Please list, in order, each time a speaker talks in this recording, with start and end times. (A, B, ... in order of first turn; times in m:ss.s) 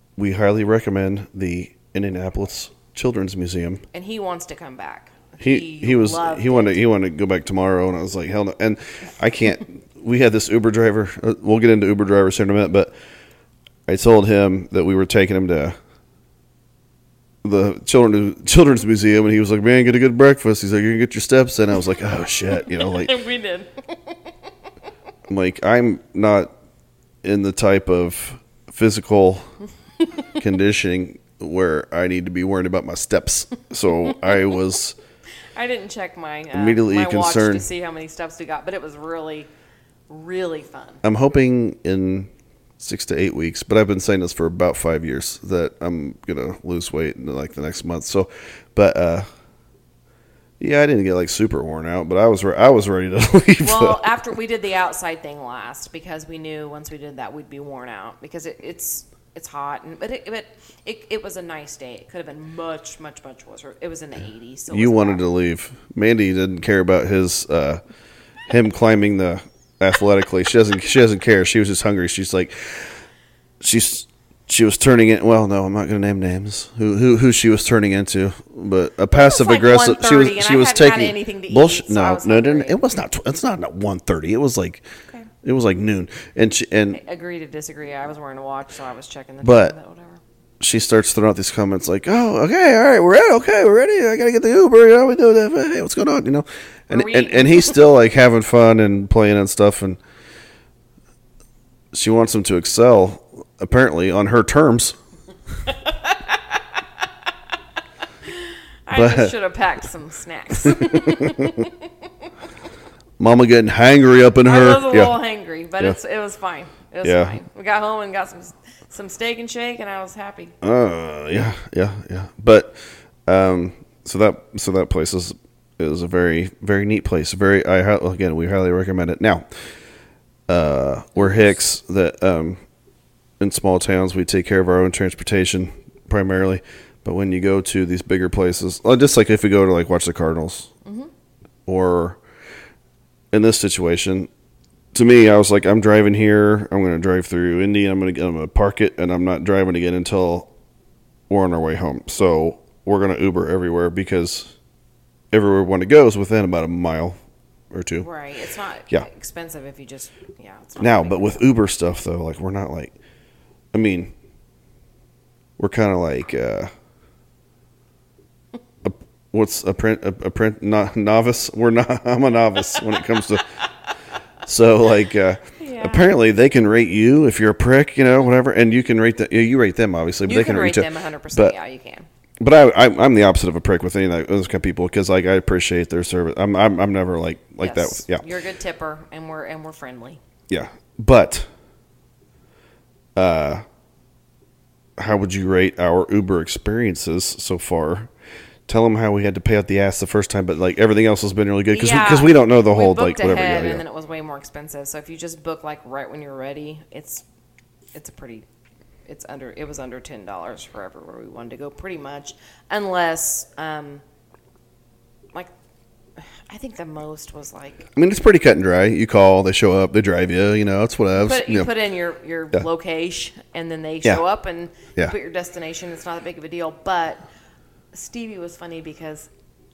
0:00.2-0:03.8 A
0:03.9-0:06.8 B
0:05.4-0:12.9 A
0:13.9-0:15.7 A
0:17.4-0:23.1 A
0:22.5-0:24.3 B
0:25.3-0:26.5 A
0:27.2-0:29.5 A
0:30.3-0:35.0 A
0:35.5-0:39.5 B
0:36.5-0:37.6 A
0:40.1-0:41.0 B
0:41.0-0:49.2 A
0:50.6-0:54.0 A
0:53.6-1:05.2 B
1:04.7-1:07.8 A
1:08.5-1:13.0 A
1:13.6-1:24.8 A
1:19.1-1:22.8 B
1:25.4-1:27.0 A
1:26.9-1:30.2 B
1:29.4-1:29.7 A
1:30.6-1:40.0 A
1:36.9-1:37.9 B
1:41.9-1:45.0 A
1:45.6-1:47.1 B
1:48.2-1:52.3 B
1:48.9-1:49.3 A
1:50.6-1:51.7 A
1:53.2-1:55.2 A
1:54.4-2:00.6 B
1:57.0-1:57.4 A
2:00.6-2:09.4 A
2:10.5-2:12.6 A
2:11.2-2:11.5 B
2:13.4-2:20.7 A
2:20.8-2:21.1 B
2:21.6-2:22.2 A
2:23.3-2:24.3 A
2:24.9-2:30.5 A
2:31.3-2:34.5 A
2:35.3-2:37.2 A
2:37.7-2:38.0 A
2:38.0-2:41.5 B
2:40.8-2:42.9 A
2:43.7-2:44.1 A
2:45.6-2:46.7 A
2:48.8-2:53.5 A
2:54.4-3:01.5 A
2:55.6-2:56.1 B
3:00.2-3:02.1 B
3:02.4-3:08.2 A
3:07.6-3:10.2 B
3:10.5-3:11.5 A
3:13.2-3:13.6 A
3:15.0-3:18.1 A
3:18.7-3:23.8 A
3:21.7-3:27.2 B
3:27.9-3:28.4 B
3:29.0-3:34.0 B
3:36.2-3:37.9 B
3:38.0-3:41.7 A
3:41.1-3:47.2 B
3:47.9-3:49.3 B